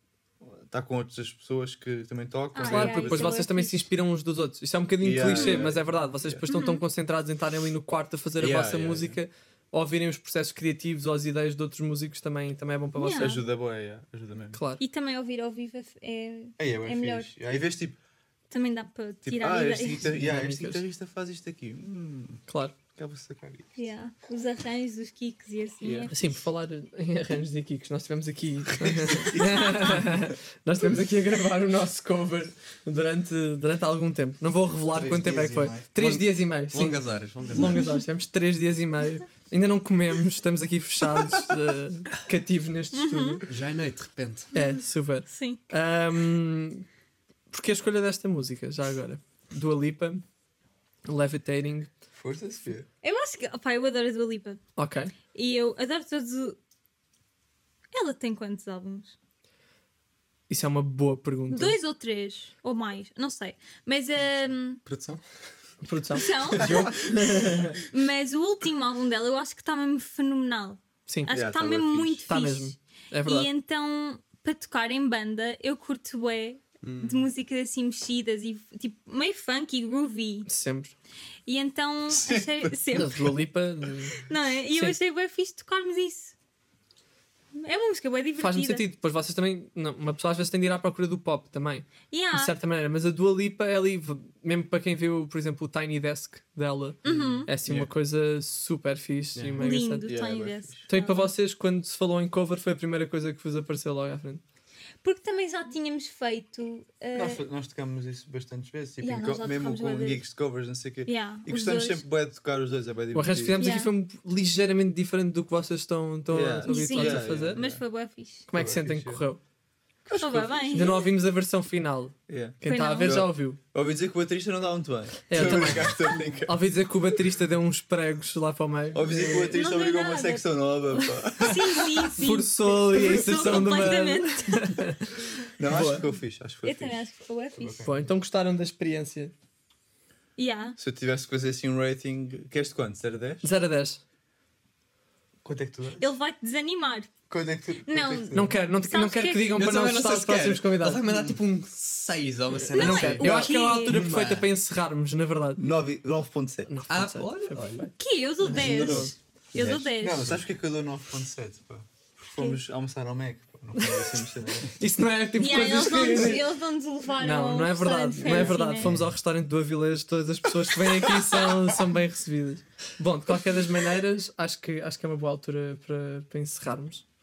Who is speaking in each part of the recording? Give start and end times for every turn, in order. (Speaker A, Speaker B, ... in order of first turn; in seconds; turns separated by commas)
Speaker A: 0.4-3.4, Speaker B: 2.5-3.9, Speaker C: 2.6-13.4, Speaker A: 5.0-6.6, Speaker B: 5.3-5.7, Speaker B: 6.5-6.8, Speaker A: 8.4-9.2, Speaker B: 13.0-13.4, Speaker A: 13.2-14.6, Speaker C: 14.5-14.8, Speaker B: 14.8-17.3, Speaker A: 16.6-18.0, Speaker B: 18.5-20.0, Speaker A: 19.2-23.8, Speaker C: 20.0-20.8, Speaker C: 22.5-22.8, Speaker B: 23.8-26.1, Speaker A: 25.8-26.1, Speaker C: 26.1-43.4, Speaker A: 28.8-30.3, Speaker B: 29.5-29.9, Speaker A: 35.0-35.9, Speaker D: 35.0-35.3, Speaker D: 35.9-37.9, Speaker B: 42.9-43.4, Speaker D: 43.5-44.5, Speaker B: 44.5-45.6, Speaker C: 44.5-46.9, Speaker C: 47.5-50.2, Speaker C: 51.0-51.9, Speaker A: 52.1-52.9, Speaker B: 53.0-54.6, Speaker C: 54.8-55.1, Speaker B: 55.3-56.6, Speaker B: 57.9-59.1, Speaker C: 60.5-61.7, Speaker B: 61.5-64.8, Speaker D: 64.8-65.2, Speaker C: 65.8-67.8, Speaker B: 66.1-67.1, Speaker B: 67.8-80.5, Speaker C: 71.1-71.3, Speaker A: 71.3-72.3, Speaker C: 72.3-73.5, Speaker D: 76.8-77.3, Speaker C: 80.5-80.9, Speaker B: 81.5-83.3, Speaker A: 82.1-83.0, Speaker C: 82.9-85.0, Speaker B: 84.2-86.3, Speaker B: 87.5-88.8, Speaker C: 88.4-100.1, Speaker B: 92.1-92.5, Speaker B: 97.0-97.5, Speaker D: 97.0-97.7, Speaker D: 99.3-99.6, Speaker B: 99.6-101.3, Speaker A: 100.0-100.9, Speaker C: 100.9-104.4, Speaker B: 105.0-107.4, Speaker A: 107.1-113.7, Speaker B: 109.0-110.2, Speaker B: 111.0-112.0, Speaker C: 113.1-117.7, Speaker B: 113.6-113.9, Speaker A: 116.3-117.8, Speaker B: 116.7-118.5, Speaker C: 118.5-119.4, Speaker A: 118.5-119.2, Speaker A: 120.0-120.9, Speaker B: 120.2-121.0, Speaker C: 120.7-123.6, Speaker A: 122.3-126.6, Speaker B: 122.6-123.3, Speaker C: 125.3-129.6, Speaker A: 128.9-132.1, Speaker B: 129.2-134.8, Speaker C: 132.2-135.1, Speaker A: 135.6-138.1, Speaker C: 135.7-136.1, Speaker B: 136.6-137.8, Speaker C: 137.8-139.3, Speaker B: 140.4-140.8, Speaker A: 140.8-143.4, Speaker C: 143.4-144.0, Speaker A: 145.4-146.0, Speaker B: 146.0-147.1, Speaker A: 147.3-148.6, Speaker B: 147.8-149.7, Speaker C: 148.3-151.1, Speaker D: 149.6-154.5, Speaker C: 152.6-155.6, Speaker B: 152.7-154.0, Speaker A: 155.6-156.7, Speaker C: 156.7-159.1, Speaker D: 156.9-157.9, Speaker B: 158.0-160.2, Speaker A: 158.5-159.1, Speaker D: 159.5-160.4, Speaker A: 160.0-164.8, Speaker B: 162.3-162.6, Speaker C: 163.8-166.5, Speaker B: 165.4-168.9, Speaker C: 167.2-177.1, Speaker A: 168.4-169.1, Speaker A: 171.1-171.8